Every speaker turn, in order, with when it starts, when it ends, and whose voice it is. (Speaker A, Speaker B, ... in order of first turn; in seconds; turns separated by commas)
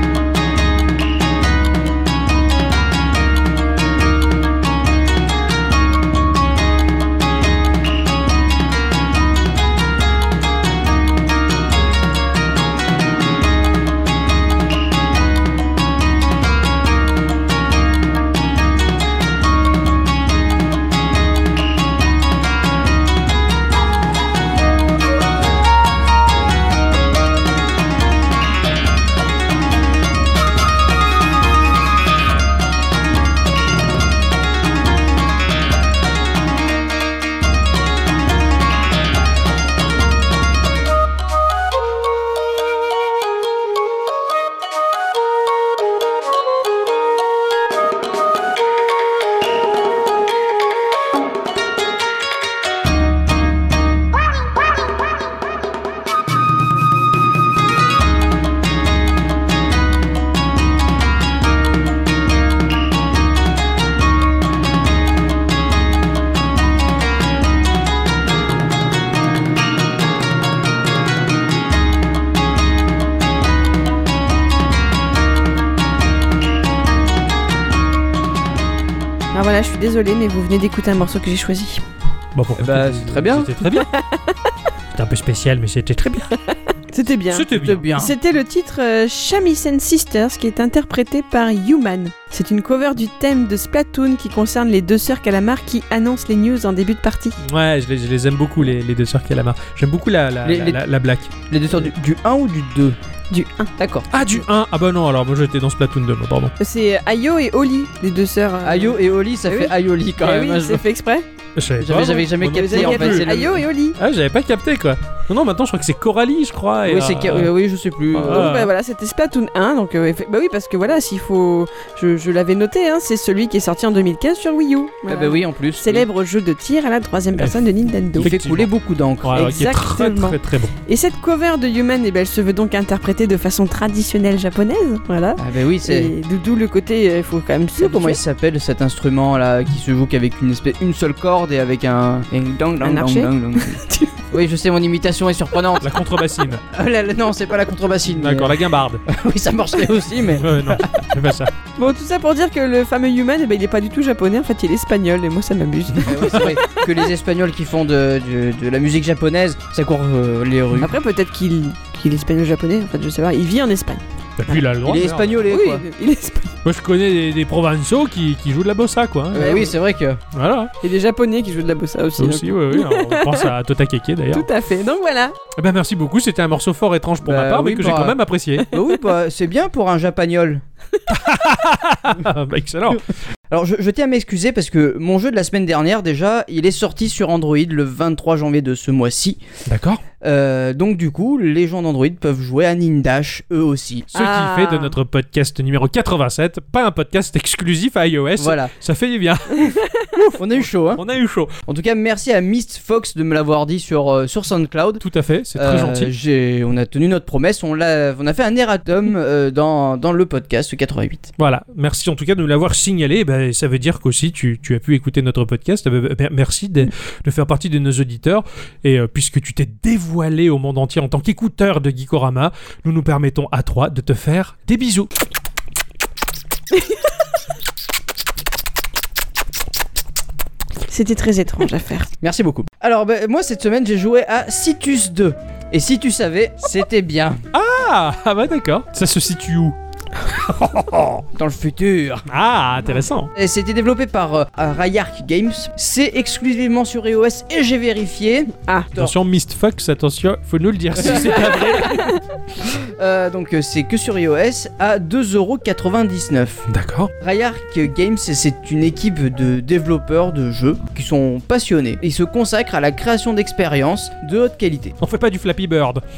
Speaker A: 79.3-81.8, Speaker B: 82.3-83.9, Speaker C: 82.6-83.5, Speaker A: 83.6-84.3, Speaker B: 84.9-86.3, Speaker A: 86.9-97.4, Speaker B: 87.3-87.9, Speaker C: 87.5-88.1, Speaker B: 97.4-101.3, Speaker C: 100.4-100.8, Speaker C: 101.5-103.0, Speaker A: 103.3-103.7, Speaker C: 103.8-104.1, Speaker B: 104.1-106.5, Speaker A: 106.6-111.3, Speaker C: 108.6-110.8, Speaker B: 111.6-113.4, Speaker C: 111.8-113.6, Speaker A: 112.5-114.0, Speaker B: 114.0-117.5, Speaker C: 116.9-118.5, Speaker B: 118.1-118.7, Speaker A: 118.2-128.3, Speaker C: 125.1-126.1, Speaker B: 128.1-128.7, Speaker C: 128.2-129.6, Speaker B: 129.2-130.7, Speaker A: 129.3-138.2, Speaker C: 135.4-136.1, Speaker C: 137.8-145.9, Speaker A: 142.8-144.2, Speaker B: 145.8-146.6, Speaker C: 146.7-151.1, Speaker B: 148.1-149.0, Speaker B: 150.4-151.5, Speaker A: 151.8-156.9, Speaker C: 156.0-160.9, Speaker A: 160.8-164.0, Speaker B: 164.4-165.4, Speaker C: 164.8-165.8, Speaker A: 165.5-166.6, Speaker B: 166.6-169.6, Speaker C: 169.3-170.2, Speaker A: 169.3-169.7, Speaker B: 170.3-170.7, Speaker A: 170.8-173.5, Speaker B: 172.2-174.5, Speaker A: 174.3-175.3, Speaker B: 175.6-178.7, Speaker C: 177.2-178.2, Speaker A: 178.6-178.9, Speaker C: 178.7-180.6, Speaker B: 181.1-183.1, Speaker C: 183.5-189.4, Speaker B: 189.7-190.0, Speaker C: 190.2-194.1, Speaker B: 194.1-201.5, Speaker A: 194.1-194.9, Speaker C: 198.4-198.7, Speaker A: 199.7-200.0, Speaker C: 200.4-201.0, Speaker C: 201.7-211.3, Speaker B: 205.0-206.1, Speaker B: 211.4-225.1, Speaker A: 226.7-227.0, Speaker A: 230.9-232.1, Speaker C: 232.2-237.4, Speaker B: 237.5-241.3, Speaker C: 241.3-242.3, Speaker B: 242.3-243.3, Speaker C: 243.4-249.1, Speaker B: 248.9-252.1, Speaker C: 251.0-251.8, Speaker C: 252.7-256.7, Speaker B: 256.7-257.1, Speaker C: 257.2-264.9, Speaker B: 265.0-266.0